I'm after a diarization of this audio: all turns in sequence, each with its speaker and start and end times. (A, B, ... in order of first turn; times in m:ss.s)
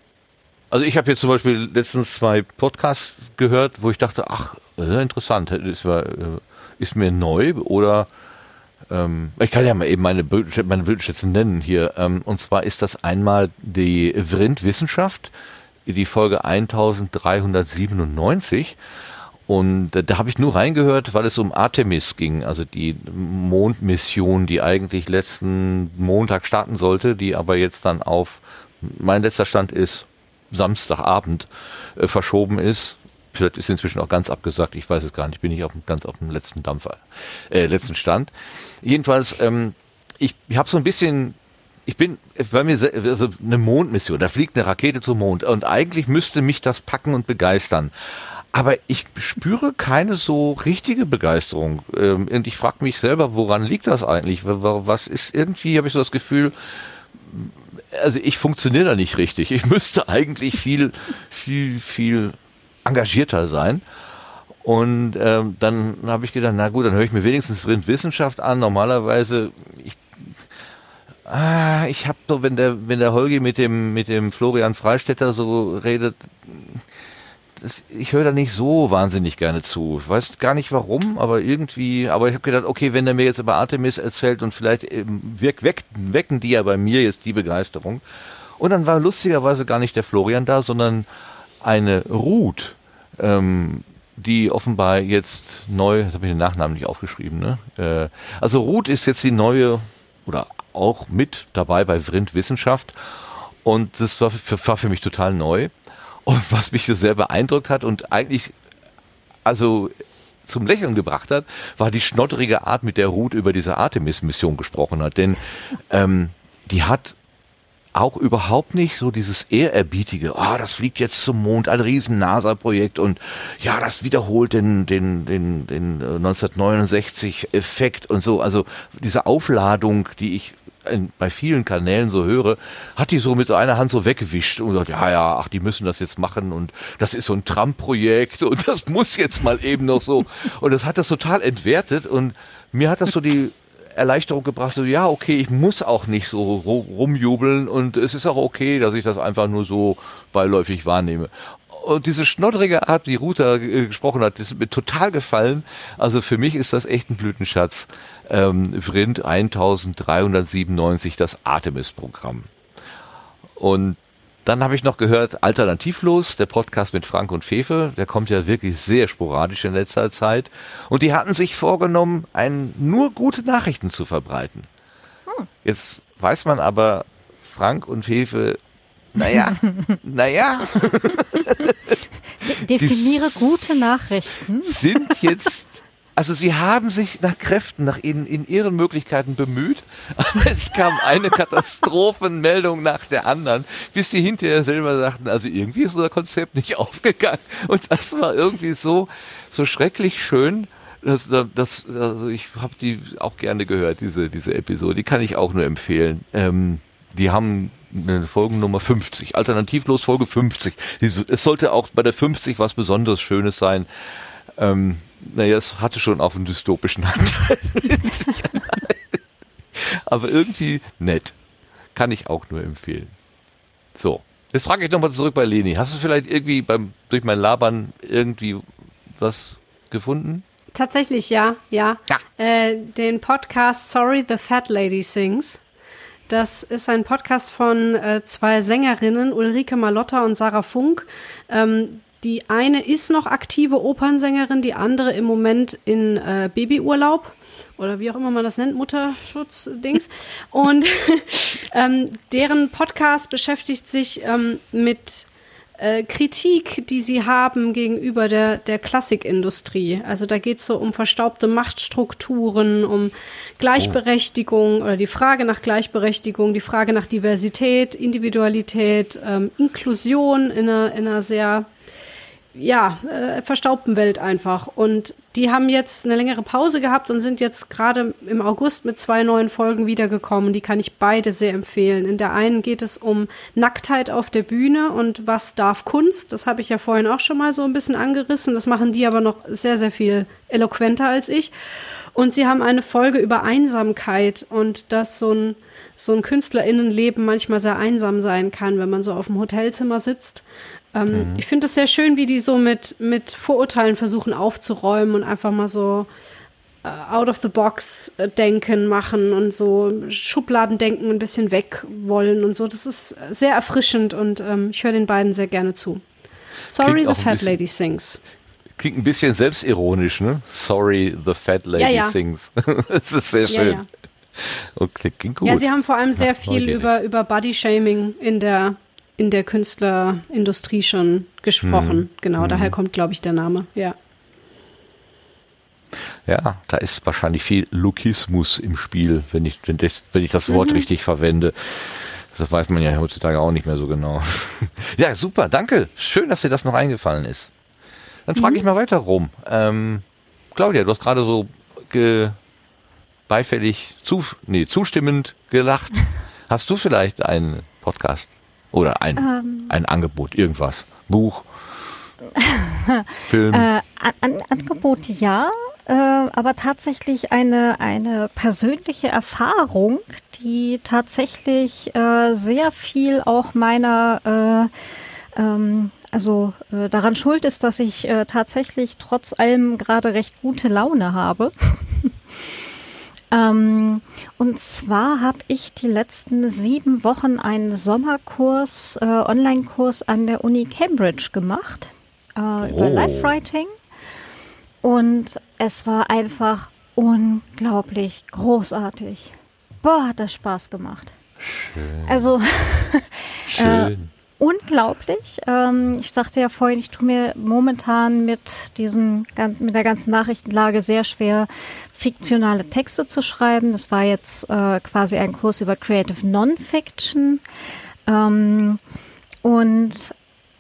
0:00.7-0:08.1 A
0:08.9-0:15.3 A
0:15.8-0:18.8 A
0:19.5-1:03.8 A
1:04.6-1:10.3 A
1:11.3-1:16.8 A
1:17.6-1:28.0 A
1:28.6-1:31.1 A
1:31.6-1:45.7 A
1:46.3-1:48.5 A
1:49.4-1:49.9 A
1:50.4-1:57.2 A
1:57.9-2:42.5 A
2:43.6-2:54.7 A
2:55.6-2:58.6 A
2:59.1-3:02.0 A
3:02.4-3:04.8 B
3:02.7-3:03.8 A
3:04.6-3:39.2 A
3:39.7-3:41.4 A
3:41.9-3:43.1 A
3:43.9-3:48.6 A
3:49.2-3:50.4 A
3:50.7-3:55.6 C
3:56.3-4:31.7 C
4:32.5-4:51.5 C
4:52.1-5:06.1 C
5:01.1-5:01.4 A
5:06.8-5:16.0 C
5:16.7-5:18.2 C
5:16.8-5:17.6 A
5:18.8-5:23.8 A
5:21.8-5:22.2 C
5:23.5-5:23.8 C
5:24.4-5:26.9 A
5:25.4-5:34.0 C
5:31.6-5:32.7 A
5:36.3-5:47.5 A
5:40.5-5:40.8 C
5:48.3-5:52.4 A
5:53.3-6:02.0 A
5:59.2-5:59.7 B
6:02.4-6:14.7 B
6:03.3-6:03.7 A
6:15.4-6:22.1 B
6:23.3-6:33.7 B
6:32.6-6:33.4 A
6:34.8-6:41.1 B
6:41.4-6:42.4 A
6:42.1-6:57.4 B
6:43.5-6:44.1 A
6:58.1-6:58.8 B
6:59.4-7:00.1 B